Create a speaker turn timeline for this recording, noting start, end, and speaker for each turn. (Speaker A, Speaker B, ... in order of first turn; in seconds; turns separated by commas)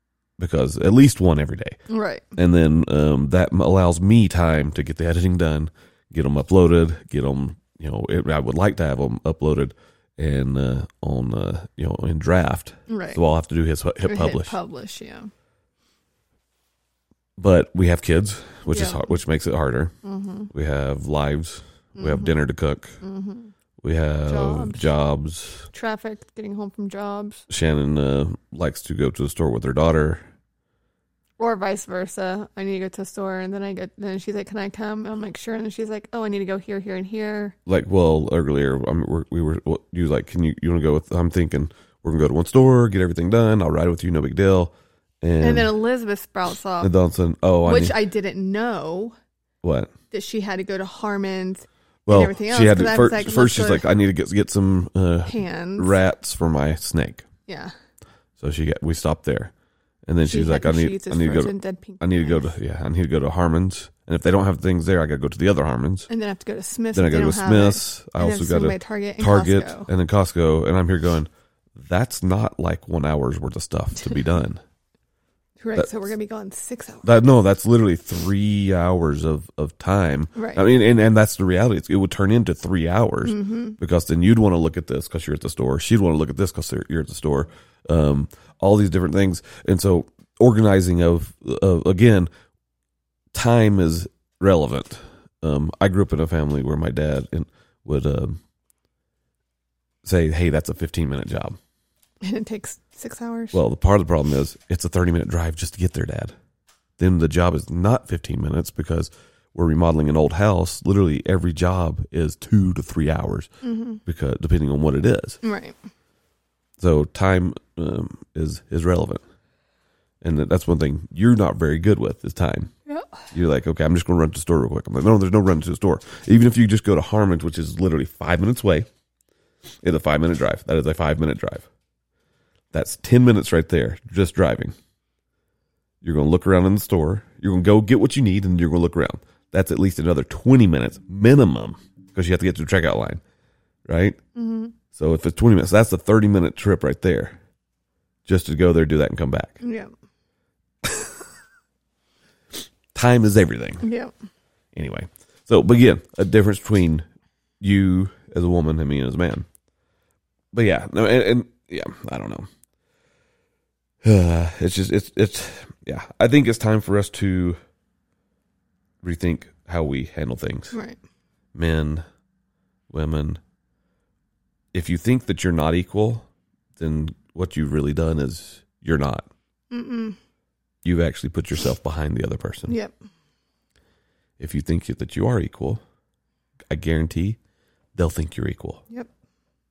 Speaker A: 0.4-1.8, Speaker B: 1.9-2.2, Speaker A: 2.4-14.5, Speaker B: 12.9-13.2, Speaker B: 14.0-15.3, Speaker A: 17.4-19.9, Speaker B: 18.7-19.1, Speaker B: 20.0-20.5, Speaker A: 20.5-23.0, Speaker B: 21.9-22.3, Speaker B: 23.0-23.5, Speaker A: 23.8-25.7, Speaker B: 24.2-24.8, Speaker B: 25.7-27.4, Speaker A: 27.5-30.3, Speaker B: 31.4-37.5, Speaker A: 37.6-45.7, Speaker B: 45.4-46.9, Speaker A: 46.8-48.0, Speaker B: 47.6-49.1, Speaker A: 49.6-49.9, Speaker B: 50.1-53.9, Speaker A: 52.1-57.2, Speaker B: 55.3-55.9, Speaker B: 57.5-57.7, Speaker A: 58.4-59.5, Speaker A: 60.1-66.1, Speaker B: 60.2-62.4, Speaker B: 66.1-69.9, Speaker A: 66.9-74.6, Speaker B: 75.6-77.1, Speaker A: 77.0-92.3, Speaker B: 80.3-80.6, Speaker B: 83.2-83.8, Speaker A: 93.3-98.4, Speaker A: 100.0-101.6, Speaker B: 102.2-103.6, Speaker A: 103.5-106.3, Speaker A: 107.0-113.5, Speaker B: 113.6-114.0, Speaker A: 114.0-115.4, Speaker B: 115.4-115.7, Speaker A: 116.8-119.2, Speaker A: 120.2-122.7, Speaker B: 122.8-123.2, Speaker A: 123.3-128.9, Speaker A: 129.8-131.7, Speaker A: 132.7-134.7, Speaker A: 136.0-143.2, Speaker A: 143.9-144.2, Speaker B: 144.3-144.8, Speaker A: 144.9-147.4, Speaker A: 148.2-149.6, Speaker B: 149.6-149.9, Speaker A: 152.9-153.9, Speaker B: 153.8-154.1, Speaker A: 154.7-157.1, Speaker A: 157.6-159.4, Speaker A: 160.5-162.5, Speaker A: 164.0-167.6, Speaker A: 169.0-170.8, Speaker B: 170.7-171.0, Speaker A: 171.5-172.0, Speaker A: 172.9-173.4, Speaker A: 174.7-179.3, Speaker B: 179.7-180.2, Speaker A: 180.8-182.8, Speaker A: 184.4-185.8, Speaker A: 186.7-187.4, Speaker A: 187.9-188.8